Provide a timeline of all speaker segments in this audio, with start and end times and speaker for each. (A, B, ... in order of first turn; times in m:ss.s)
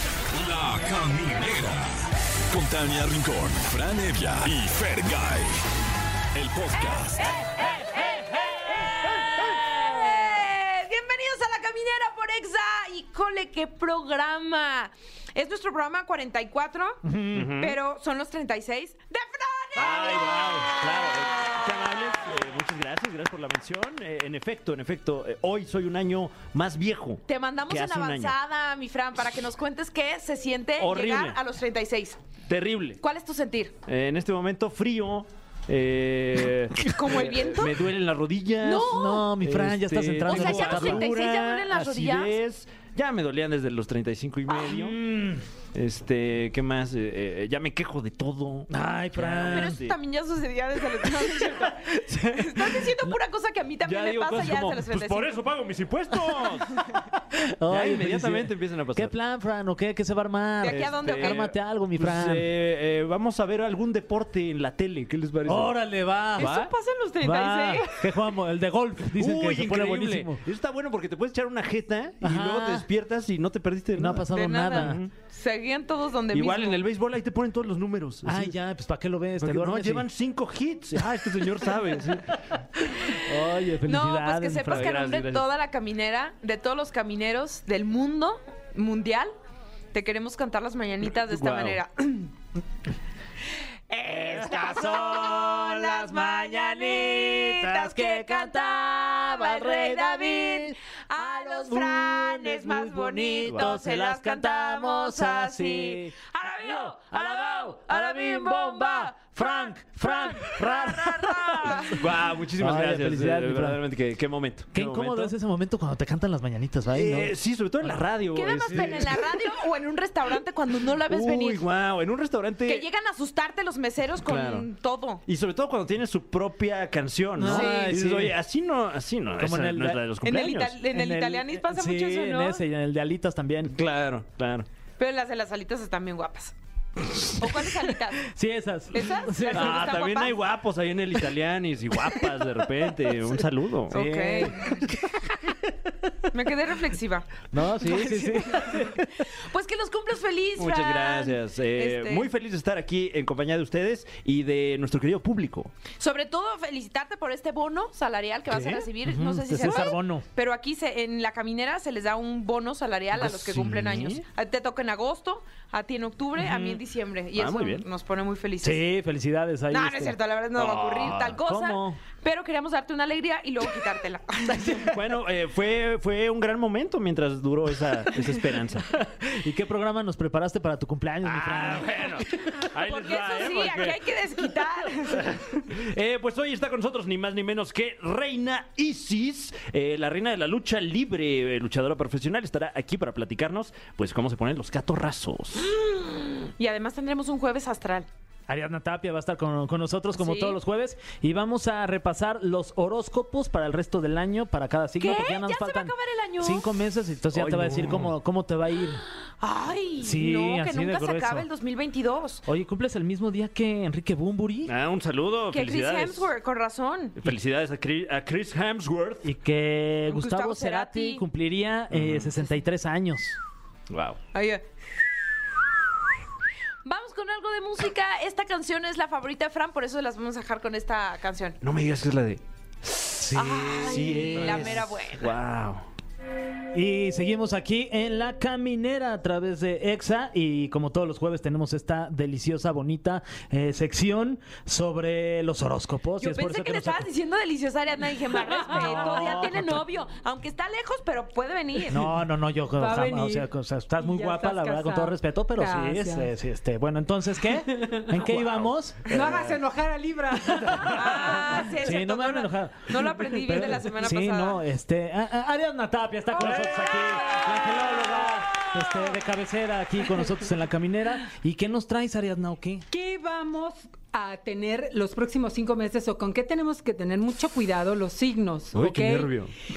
0:00.3-0:05.6 A
0:06.3-0:07.4 A
0:07.2-0:17.0 B
0:17.0-0:17.5 C
0:17.3-0:17.8 D
0:17.6-0:21.5 B
0:19.8-0:28.3 D
0:27.3-0:32.2 B
0:30.8-0:31.4 D
0:32.4-0:33.0 D
0:33.0-0:33.8 B
0:33.8-0:45.1 D
0:36.8-0:37.9 B
0:38.6-0:39.3 B
0:38.8-0:41.1 C
0:40.2-0:42.4 B
0:44.7-0:45.4 C
0:45.7-0:50.0 D
0:48.7-0:49.8 C
0:49.4-0:55.4 B
0:52.0-0:53.1 C
0:53.8-0:56.8 D
0:57.6-1:02.4 C
0:57.7-0:59.1 D
1:00.6-1:01.5 B
1:01.0-1:05.7 D
1:05.4-1:06.7 C
1:06.4-1:08.1 B
1:06.4-1:06.7 D
1:07.2-1:10.4 C
1:09.1-1:15.1 D
1:12.2-1:12.9 C
1:13.9-1:15.0 C
1:14.3-1:16.8 B
1:16.3-1:18.6 D
1:18.2-1:20.1 C
1:19.4-1:22.3 D
1:22.3-1:24.9 C
1:23.0-1:29.3 B
1:24.7-1:25.5 D
1:29.9-1:32.3 B
1:31.1-1:31.8 D
1:33.9-1:52.0 B
1:34.4-1:52.0 C
1:43.4-1:43.8 D
1:51.9-1:55.3 D
1:52.6-1:53.8 C
1:54.7-1:59.0 C
1:56.9-1:59.3 D
1:58.3-2:01.6 B
2:01.1-2:02.8 D
2:02.7-2:05.2 B
2:04.2-2:04.6 D
2:05.2-2:10.8 D
2:07.4-2:08.4 C
2:07.4-2:08.0 B
2:09.4-2:10.0 C
2:10.2-2:12.6 B
2:10.9-2:13.8 C
2:13.7-2:14.7 D
2:15.0-2:16.5 B
2:17.2-2:18.3 B
2:18.3-2:19.9 C
2:18.9-2:20.4 B
2:19.5-2:24.0 D
2:23.9-2:25.0 B
2:23.9-2:26.1 C
2:26.3-2:32.3 B
2:27.5-2:29.3 C
2:30.6-2:35.7 D
2:36.0-2:48.8 B
2:38.5-2:38.8 D
2:39.0-2:40.2 C
2:43.2-2:44.2 D
2:47.4-2:47.9 D
2:48.6-2:50.1 C
2:49.7-2:54.8 B
2:50.6-2:51.4 D
2:51.2-2:52.0 C
2:54.5-2:58.9 D
2:58.9-3:02.3 C
3:01.2-3:04.0 D
3:02.8-3:05.5 B
3:05.1-3:15.7 D
3:15.6-3:18.1 B
3:18.5-3:29.0 C
3:20.2-3:20.6 B
3:25.0-3:26.7 B
3:27.3-3:28.1 D
3:29.4-3:32.4 B
3:30.0-3:31.5 C
3:32.4-3:34.7 C
3:34.6-3:36.3 D
3:35.5-3:37.2 B
3:37.2-3:39.3 D
3:39.2-3:43.4 C
3:40.1-3:41.2 B
3:41.9-3:42.3 D
3:43.9-3:44.2 D
3:44.3-3:44.6 B
3:46.8-3:51.6 B
3:51.6-3:55.8 D
3:53.2-3:54.6 C
3:53.3-3:55.4 B
3:56.7-4:07.1 C
4:06.2-4:12.1 B
4:08.7-4:09.8 C
4:11.9-4:19.3 C
4:12.8-4:16.3 E
4:17.7-4:18.1 E
4:18.3-4:19.5 D
4:19.1-4:21.6 E
4:20.5-4:32.8 C
4:20.9-4:24.6 B
4:26.4-4:28.7 B
4:32.9-4:39.3 E
4:38.7-4:39.5 D